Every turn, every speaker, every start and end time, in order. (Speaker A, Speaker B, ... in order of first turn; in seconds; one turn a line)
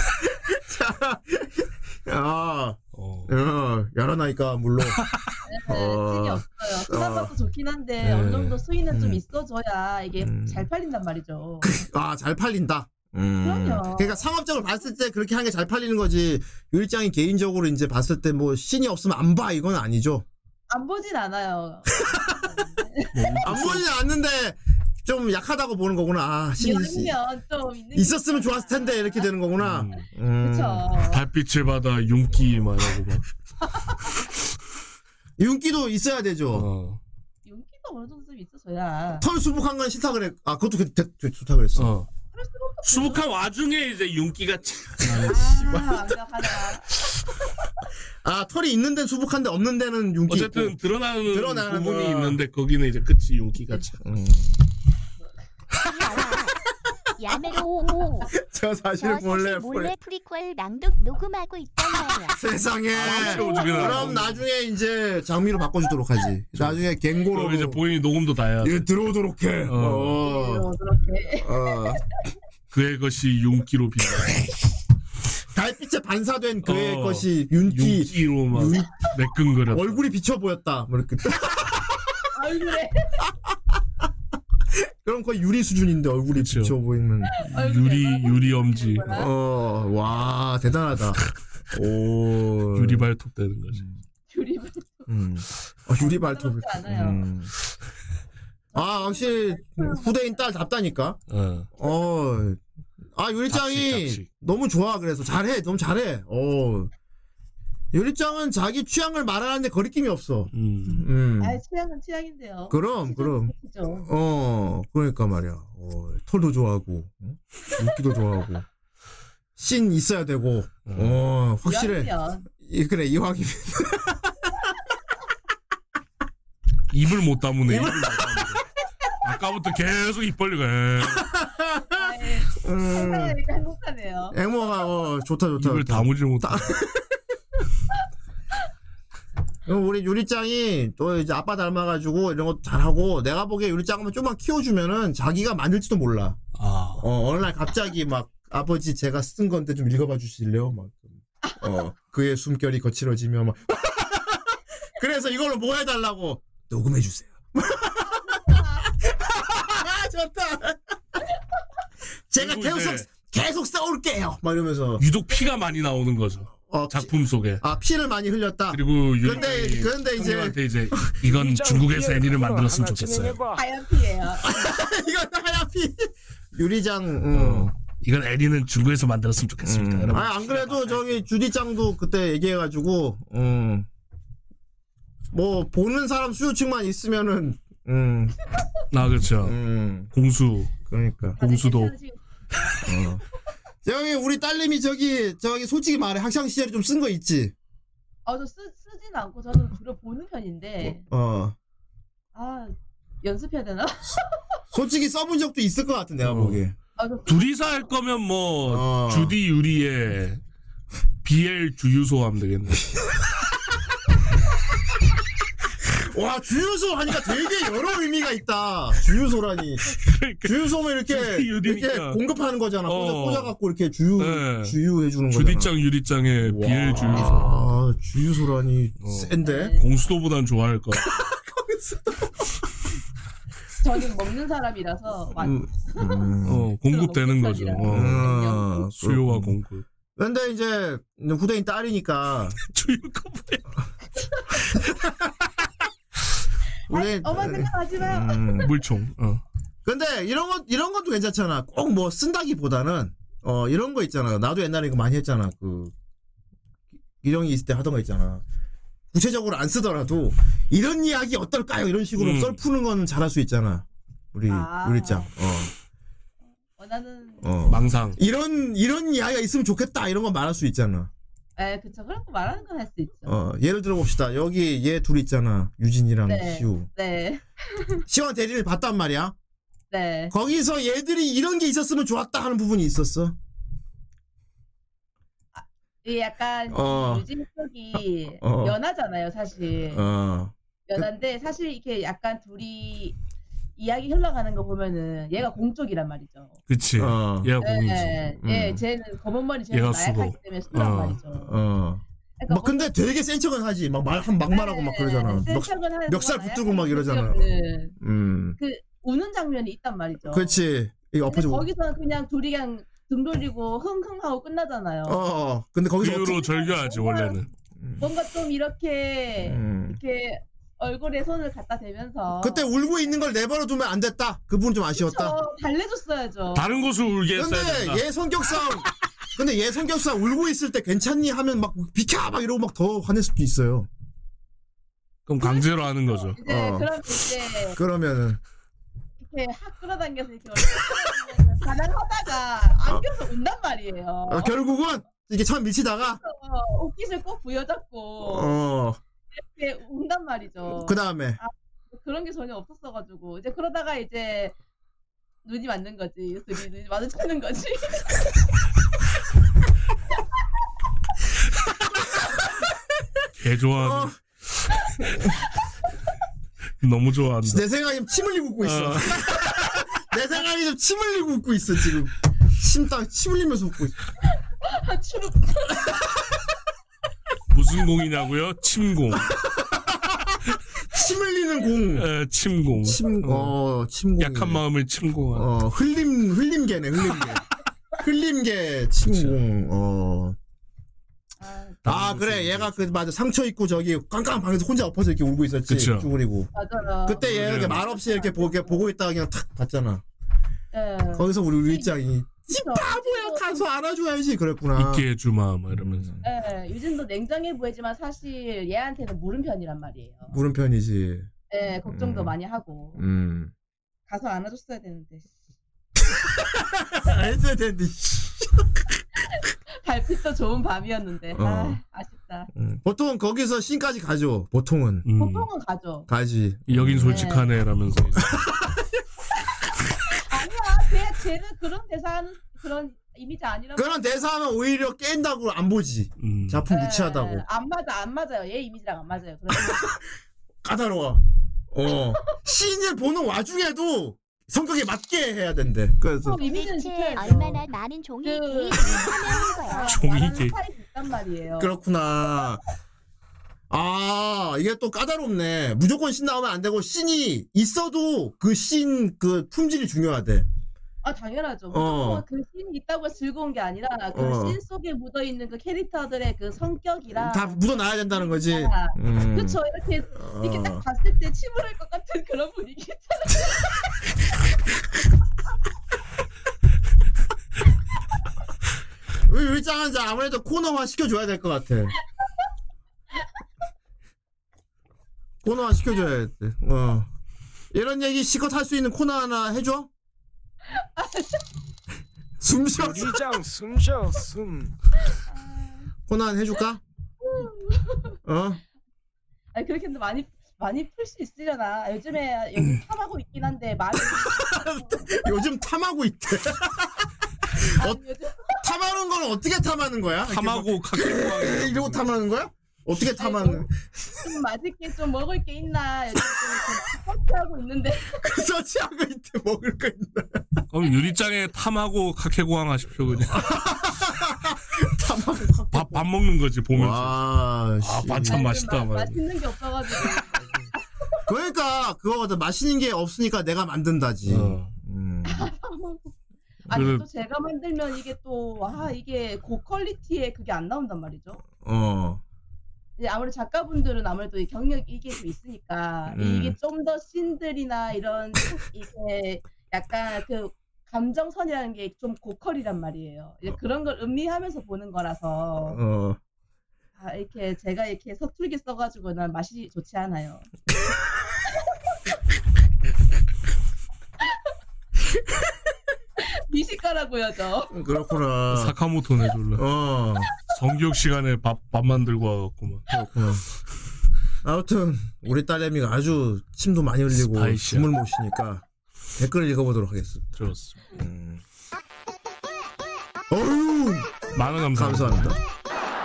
Speaker A: 0.5-5.0
Speaker B: 2.9-3.3
Speaker C: 5.5-11.7
Speaker A: 5.7-7.3
Speaker B: 8.0-8.6
Speaker A: 8.9-9.2
Speaker A: 10.2-10.7
Speaker A: 11.6-20.2
Speaker C: 13.4-14.2
Speaker C: 20.7-23.2
Speaker B: 23.1-23.9
Speaker A: 23.4-27.1
Speaker C: 26.6-29.3
Speaker A: 27.9-30.9
Speaker B: 29.6-30.1
Speaker C: 30.4-31.2
Speaker B: 31.1-33.3
Speaker A: 35.4-36.7
Speaker B: 36.5-37.0
Speaker C: 37.5-39.2
Speaker A: 39.2-41.9
Speaker B: 41.8-42.1
Speaker C: 42.3-43.2
Speaker B: 42.9-45.7
Speaker A: 45.1-46.0
Speaker C: 45.3-47.1
Speaker A: 48.2-52.4
Speaker B: 50.3-54.0
Speaker A: 54.0-54.6
Speaker D: 55.8-56.5
Speaker D: 57.2-58.3
Speaker A: 58.3-59.9
Speaker D: 59.0-62.4
Speaker A: 62.1-67.8
Speaker B: 62.9-64.4
Speaker C: 63.1-64.1
Speaker B: 66.5-68.9
Speaker A: 68.6-70.7
Speaker B: 69.7-70.2
Speaker C: 70.2-71.8
Speaker A: 71.4-72.0
Speaker B: 72.7-74.4
Speaker A: 75.5-79.0
Speaker B: 76.6-80.0
Speaker A: 79.7-82.0
Speaker C: 82.3-83.0
Speaker A: 83.2-83.6
Speaker A: 84.7-87.3
Speaker B: 86.3-86.7
Speaker C: 87.3-89.3
Speaker B: 87.5-89.2
Speaker A: 89.1-91.2
Speaker A: 91.7-93.1
Speaker B: 92.8-93.8
Speaker A: 93.7-94.0
Speaker C: 94.3-95.1
Speaker A: 95.1-97.5
Speaker C: 96.0-97.2
Speaker C: 98.7-100.5
Speaker A: 98.8-101.2
Speaker B: 101.3-101.7
Speaker A: 101.8-102.6
Speaker A: 103.1-106.9
Speaker B: 103.5-104.3
Speaker A: 107.9-111.6
Speaker B: 110.5-111.1
Speaker C: 111.4-114.1
Speaker A: 112.7-118.7
Speaker A: 119.6-124.5
Speaker B: 120.9-121.2
Speaker C: 121.7-122.5
Speaker B: 126.9-128.6
Speaker A: 127.7-128.5
Speaker B: 129.2-131.3
Speaker A: 131.1-133.4
Speaker C: 131.9-134.4
Speaker A: 134.3-137.1
Speaker B: 135.6-136.7
Speaker A: 139.7-146.4
Speaker B: 146.6-147.1
Speaker A: 147.0-160.8
Speaker C: 158.2-158.8
Speaker A: 162.3-165.0
Speaker B: 162.4-163.1
Speaker B: 165.0-167.6
Speaker A: 166.7-171.3
Speaker B: 168.7-173.4
Speaker E: 171.4-173.3
Speaker C: 173.5-174.6
Speaker A: 174.4-177.7
Speaker B: 177.3-181.2
Speaker A: 179.6-183.9
Speaker A: 185.3-188.3
Speaker B: 188.9-189.6
Speaker A: 189.4-190.1
Speaker B: 190.1-190.7
Speaker A: 190.9-191.4
Speaker B: 191.4-191.9
Speaker C: 191.4-192.8
Speaker A: 192.9-193.2
Speaker A: 193.8-197.5
Speaker C: 198.3-201.0
Speaker A: 200.8-201.6
Speaker C: 202.3-204.2
Speaker A: 204.7-206.8
Speaker B: 206.2-206.6
Speaker C: 207.0-207.8
Speaker B: 207.3-210.4
Speaker A: 208.7-209.4
Speaker B: 211.2-212.9
Speaker A: 215.9-225.7
Speaker B: 219.9-220.6
Speaker B: 221.1-222.2
Speaker B: 222.8-223.5
Speaker B: 224.2-224.8
Speaker B: 225.3-227.7
Speaker A: 226.4-229.8
Speaker B: 229.0-231.1
Speaker C: 229.4-229.8
Speaker A: 231.1-232.3
Speaker C: 233.8-236.3
Speaker A: 235.4-236.7
Speaker B: 236.5-238.3
Speaker C: 236.9-238.8
Speaker A: 237.9-239.6
Speaker B: 238.9-239.8
Speaker A: 240.2-242.6
Speaker B: 242.7-243.7
Speaker A: 246.9-248.7
Speaker C: 246.9-248.6
Speaker B: 248.6-249.4
Speaker A: 249.8-255.9
Speaker A: 257.2-258.4
Speaker A: 259.1-265.7
Speaker B: 262.2-262.6
Speaker C: 264.5-265.3
Speaker C: 266.7-267.8
Speaker A: 267.4-271.1
Speaker B: 267.7-268.2
Speaker C: 271.6-273.4
Speaker A: 273.3-276.9
Speaker C: 276.3-278.0
Speaker A: 278.1-279.3
Speaker C: 279.9-280.3
Speaker A: 280.3-283.4
Speaker C: 285.6-290.1
Speaker A: 286.7-287.2
Speaker A: 288.4-288.8
Speaker A: 289.9-291.1
Speaker C: 290.9-293.2
Speaker C: 293.8-296.6
Speaker B: 296.7-298.2
Speaker A: 297.0-297.5
Speaker C: 297.6-301.5
Speaker A: 298.4-298.8
Speaker B: 299.7-301.2
Speaker A: 301.4-307.5
Speaker C: 302.4-302.9
Speaker C: 304.5-307.9
Speaker A: 308.0-308.6
Speaker C: 308.6-310.6
Speaker A: 310.2-311.7
Speaker C: 311.3-315.2
Speaker A: 315.1-316.5
Speaker B: 316.0-317.5
Speaker C: 316.3-317.4
Speaker A: 317.8-318.1
Speaker C: 318.0-322.9
Speaker A: 319.4-320.0
Speaker A: 322.4-325.4
Speaker C: 324.9-326.9
Speaker B: 326.5-328.0
Speaker A: 327.4-333.9
Speaker B: 335.3-336.4
Speaker C: 335.4-337.8
Speaker A: 336.4-336.9
Speaker A: 337.8-338.4
Speaker C: 339.2-344.6
Speaker A: 344.3-346.2
Speaker C: 346.0-348.6
Speaker A: 348.2-349.0
Speaker C: 349.3-354.6
Speaker A: 350.7-351.4
Speaker C: 355.4-358.2
Speaker B: 363.4-364.2
Speaker A: 363.8-364.1
Speaker B: 366.8-367.6
Speaker A: 367.4-373.9
Speaker B: 368.6-369.3
Speaker C: 374.6-376.0
Speaker B: 377.5-379.3
Speaker A: 379.6-380.4
Speaker A: 380.9-382.1
Speaker B: 381.9-383.5
Speaker A: 382.8-384.6
Speaker B: 384.2-385.5
Speaker A: 385.3-387.4
Speaker A: 388.0-390.4
Speaker B: 389.1-389.4
Speaker C: 391.4-391.9
Speaker B: 391.9-393.0
Speaker A: 391.9-396.5
Speaker B: 395.7-396.1
Speaker C: 396.6-398.8
Speaker A: 397.1-400.0
Speaker B: 397.2-397.8
Speaker C: 400.7-401.9
Speaker A: 401.1-405.1
Speaker C: 402.5-403.7
Speaker B: 404.7-406.1
Speaker A: 405.7-406.2
Speaker C: 406.2-410.4
Speaker A: 410.3-411.3
Speaker C: 411.5-413.0
Speaker A: 411.9-412.3
Speaker A: 413.0-413.5
Speaker C: 414.1-415.3
Speaker A: 416.5-418.7
Speaker C: 419.8-422.5
Speaker A: 421.4-421.8
Speaker A: 422.5-425.1
Speaker B: 425.1-425.5
Speaker C: 425.2-426.1
Speaker A: 426.1-427.3
Speaker B: 426.7-428.3
Speaker C: 427.1-427.5
Speaker A: 428.2-428.9
Speaker C: 430.2-434.2
Speaker A: 433.8-437.4
Speaker B: 436.2-436.6
Speaker C: 436.7-439.9
Speaker A: 440.6-446.4
Speaker C: 446.2-447.6
Speaker D: 446.4-450.0
Speaker C: 448.2-451.7
Speaker B: 449.9-450.5
Speaker A: 451.6-452.6
Speaker A: 453.7-460.5
Speaker C: 461.0-473.8
Speaker A: 461.7-462.2
Speaker A: 464.1-464.6
Speaker A: 467.1-469.6
Speaker A: 470.1-470.8
Speaker A: 479.3-481.9
Speaker A: 485.4-487.1
Speaker A: 487.7-489.9
Speaker C: 490.7-491.4
Speaker A: 492.4-493.2
Speaker E: 492.8-494.4
Speaker C: 495.1-495.9
Speaker A: 496.1-496.8
Speaker C: 497.2-498.1
Speaker A: 498.2-498.6
Speaker C: 499.5-505.2
Speaker A: 504.6-507.1
Speaker C: 507.6-508.6
Speaker A: 507.6-508.0
Speaker A: 508.6-513.7
Speaker B: 510.3-512.1
Speaker C: 513.0-513.7
Speaker C: 514.2-518.2
Speaker A: 518.2-520.6
Speaker B: 520.7-523.4
Speaker A: 523.1-526.1
Speaker B: 525.7-527.2
Speaker A: 526.7-528.4
Speaker B: 527.8-529.2
Speaker C: 528.3-531.2
Speaker A: 531.3-535.5
Speaker B: 534.3-534.7
Speaker C: 535.2-536.1
Speaker C: 536.7-541.4
Speaker B: 536.7-537.0
Speaker A: 541.6-542.2
Speaker C: 543.0-555.8
Speaker A: 546.1-546.6
Speaker A: 555.6-556.2
Speaker C: 557.0-560.5
Speaker C: 566.5-567.7
Speaker A: 567.7-568.7
Speaker B: 568.5-569.6
Speaker A: 569.5-570.3
Speaker B: 570.5-572.8
Speaker A: 572.9-573.4
Speaker A: 574.4-578.6
Speaker B: 577.1-577.9
Speaker A: 579.2-580.4
Speaker B: 580.3-580.8
Speaker A: 580.9-581.4
Speaker A: 583.3-585.4
Speaker B: 584.3-585.4